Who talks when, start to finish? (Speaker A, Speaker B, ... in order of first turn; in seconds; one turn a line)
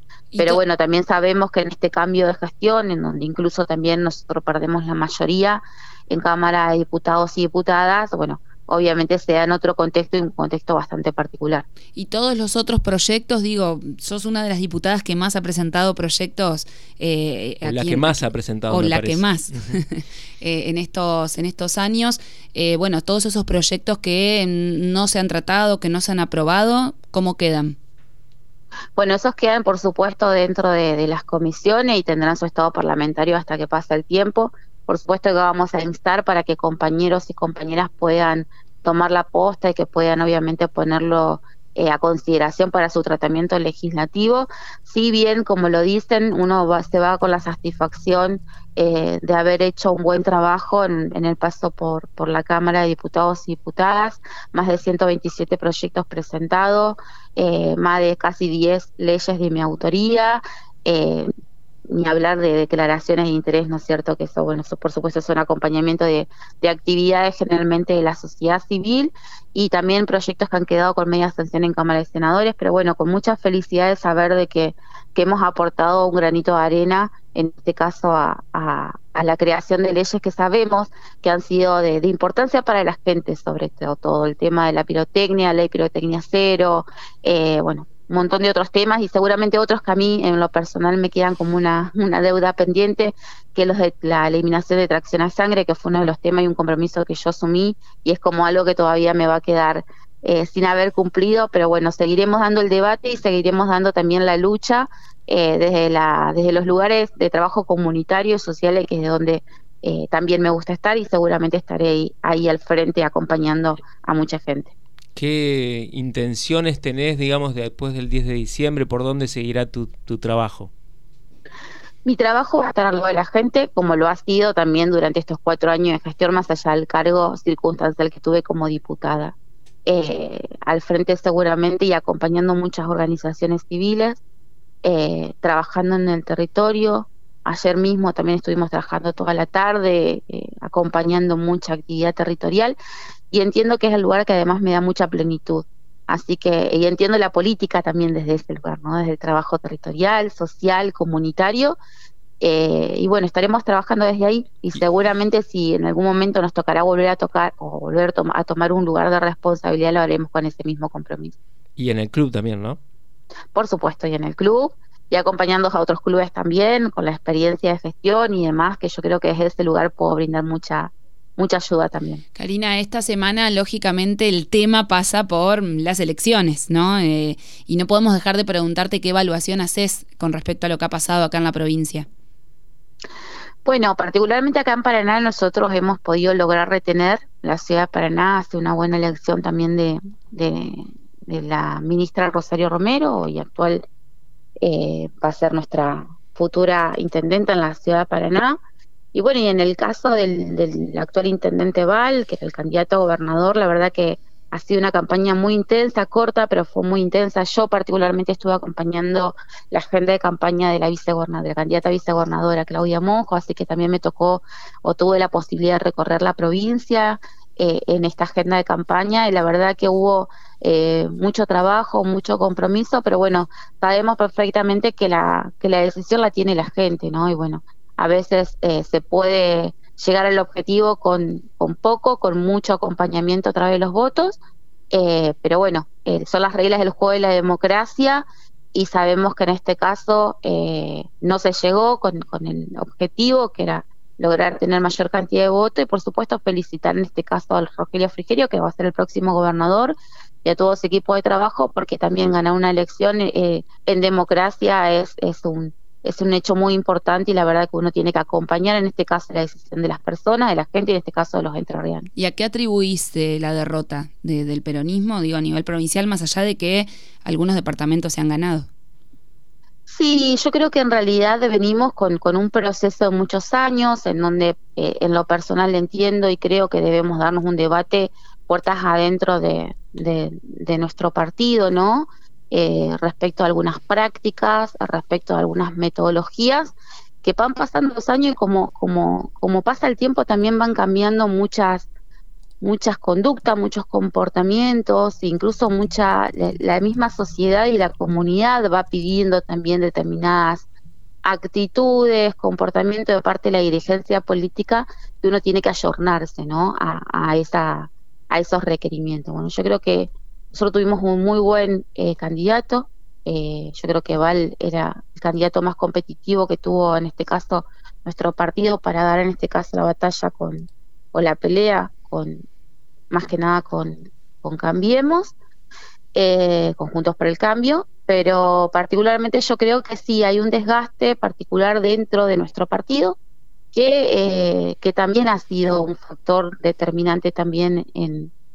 Speaker A: 0.3-0.6
Speaker B: 0.4-11.7
Speaker A: 11.9-27.7
Speaker C: 17.6-19.8
Speaker B: 28.9-61.3
Speaker B: 61.9-114.7
Speaker C: 115.1-120.7
Speaker B: 122.0-129.3
Speaker B: 129.8-134.2
Speaker B: 134.8-142.8
Speaker B: 143.3-151.8
Speaker B: 152.4-161.4
Speaker C: 161.8-162.8
Speaker B: 163.5-172.2
Speaker A: 172.3-182.1
Speaker B: 183.6-193.8
Speaker B: 194.6-198.6
Speaker B: 199.1-234.4
Speaker B: 234.9-262.1
Speaker A: 262.1-268.7
Speaker B: 269.9-291.9
Speaker B: 292.6-300.6
Speaker B: 301.2-322.4
Speaker B: 323.1-325.3
Speaker B: 326.1-333.2
Speaker B: 333.7-338.3